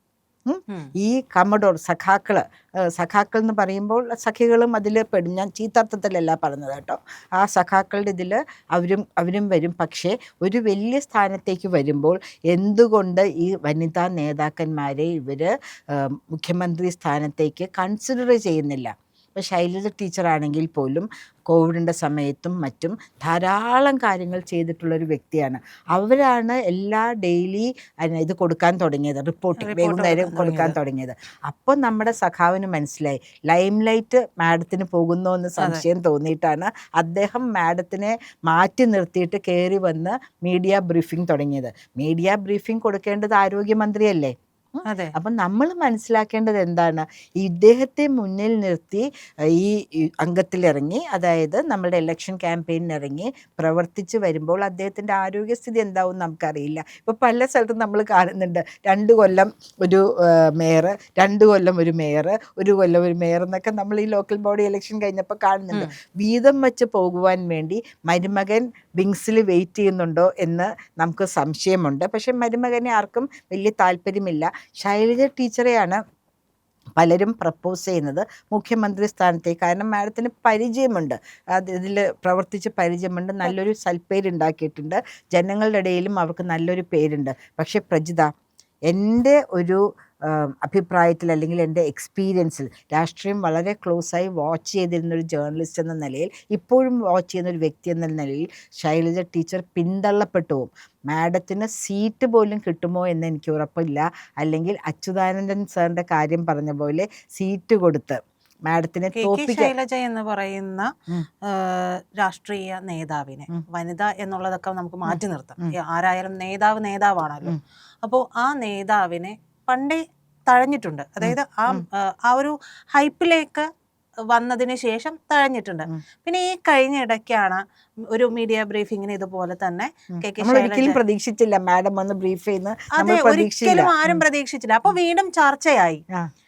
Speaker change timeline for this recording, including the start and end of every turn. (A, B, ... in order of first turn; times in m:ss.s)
0:00.4-1:16.0 A
0:29.6-0:30.8 B
0:44.9-0:45.1 B
1:17.0-1:28.3 A
1:28.9-1:49.7 A
1:49.2-1:50.9 B
1:51.4-2:03.7 B
1:55.1-1:55.7 A
2:01.2-2:01.8 A
2:04.3-2:11.0 B
2:10.2-2:14.2 A
2:13.0-2:16.0 B